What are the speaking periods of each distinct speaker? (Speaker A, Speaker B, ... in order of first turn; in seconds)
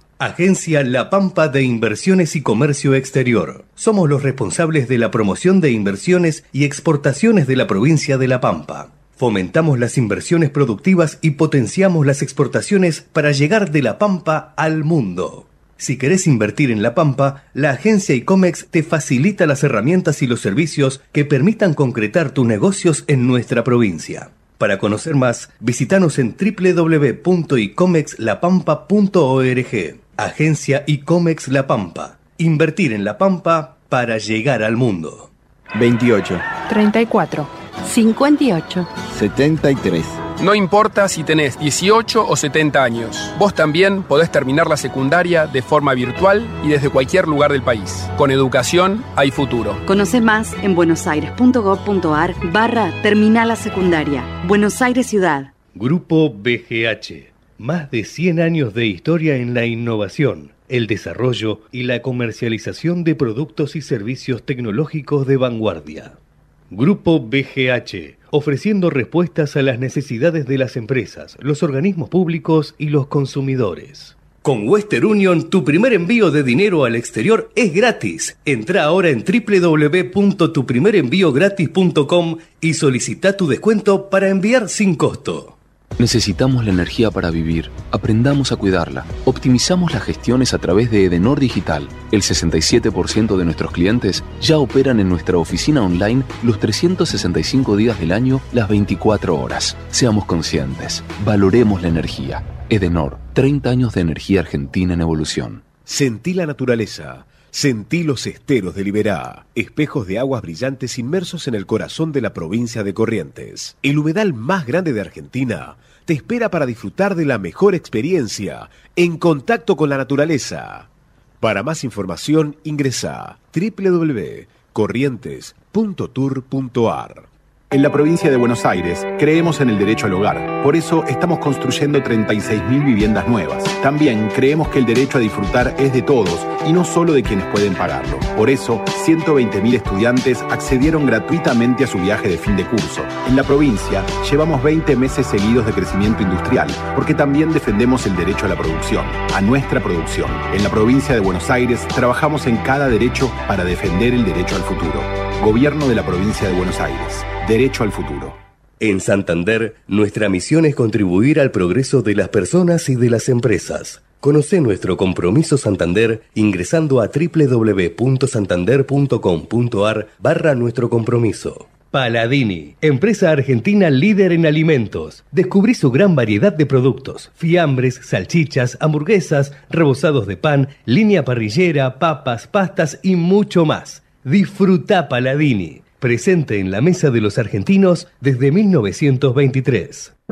Speaker A: 0.2-35.3, 55.8-66.2, 66.7-85.6, 158.8-190.1
Speaker B: 36.7-37.3, 37.9-38.9, 49.9-55.5
Speaker C: 40.4-49.8
Speaker D: 86.0-105.7
Speaker E: 105.9-120.9, 121.4-127.3
Speaker F: 127.7-158.4